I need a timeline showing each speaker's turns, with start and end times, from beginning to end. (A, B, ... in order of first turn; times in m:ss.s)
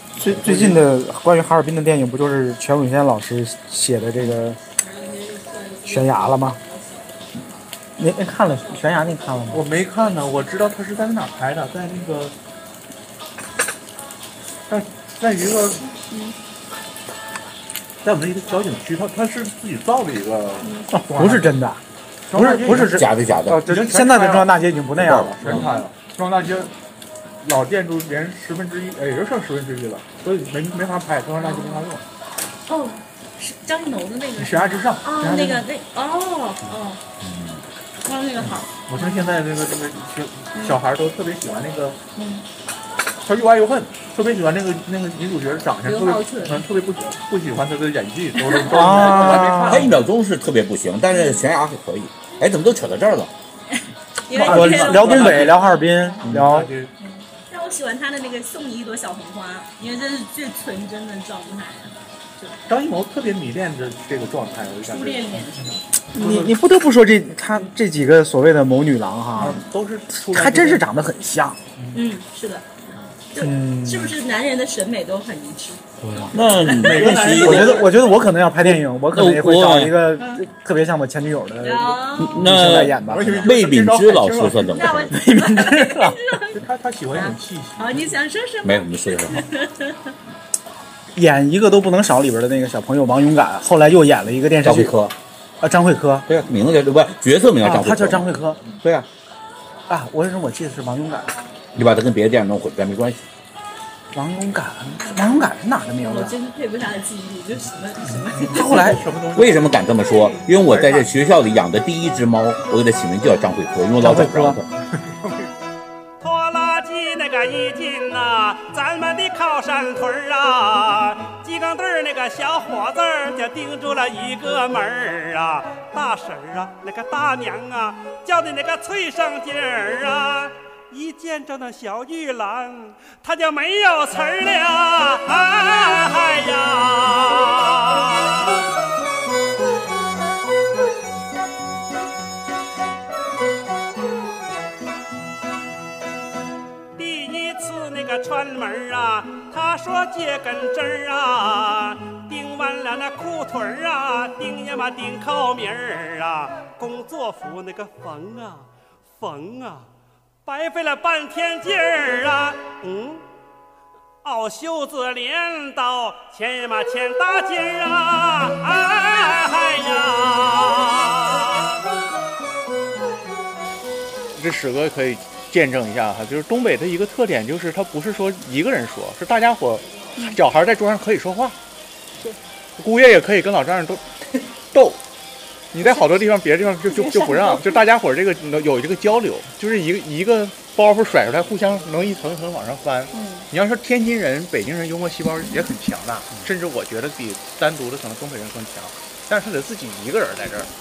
0:00.2-0:04.6 A
0:00.2-0:00.8 B
0:04.8-0:07.2 C
0:05.8-0:06.6 A
0:08.0-0:09.6 A
0:08.6-0:09.1 C
0:09.5-0:12.3 B
0:14.7-0:15.9 B
0:16.1-0:16.3 C
0:18.0-0:21.5 B
0:20.6-0:20.9 C
0:21.0-0:25.6 A
0:22.3-0:23.0 B
0:22.8-0:23.6 D
0:23.6-0:24.6 B
0:25.0-0:25.6 D
0:25.2-0:26.7 B
0:25.5-0:25.8 C
0:27.4-0:32.0 B
0:31.4-0:31.8 C
0:32.7-0:37.0 C
0:34.4-0:35.6 B
0:38.0-0:39.2 C
0:38.8-0:42.0 B
0:40.5-0:40.8 C
0:42.1-0:42.4 C
0:43.2-0:50.0 B
0:45.8-0:46.6 C
0:48.5-0:48.8 C
0:48.7-0:49.9 A
0:49.0-0:53.3 D
0:51.1-0:51.4 C
0:53.7-0:56.3 C
0:54.3-0:55.7 B
0:54.3-0:56.7 A
0:56.2-0:56.9 B
0:57.0-1:02.6 C
1:02.7-1:06.5 B
1:04.8-1:05.8 C
1:06.1-1:09.6 A
1:09.4-1:10.8 B
1:10.2-1:11.6 A
1:11.9-1:15.8 C
1:13.4-1:14.2 A
1:16.0-1:23.7 A
1:16.3-1:17.9 D
1:16.6-1:18.0 B
1:18.6-1:20.0 D
1:20.2-1:20.4 C
1:21.6-1:22.3 C
1:22.2-1:25.1 D
1:23.0-1:24.7 B
1:24.6-1:26.6 C
1:25.1-1:26.2 A
1:26.5-1:28.2 B
1:27.1-1:30.1 C
1:28.6-1:29.4 D
1:31.1-1:36.3 A
1:34.6-1:35.1 D
1:36.3-1:38.3 D
1:37.6-1:39.1 A
1:39.9-1:41.3 A
1:41.7-1:43.2 D
1:44.1-1:46.3 A
1:46.0-1:48.9 C
1:48.4-1:51.1 B
1:48.5-1:49.0 A
1:49.3-1:54.7 D
1:54.0-1:54.6 A
1:56.2-2:18.5 E
2:27.0-2:38.6 E
2:39.2-2:39.8 E
2:40.5-2:43.2 E
2:44.2-2:51.7 E
2:54.3-3:01.6 B
3:02.8-3:05.0 B
3:05.7-3:20.7 B
3:06.9-3:07.8 C
3:13.1-3:13.5 C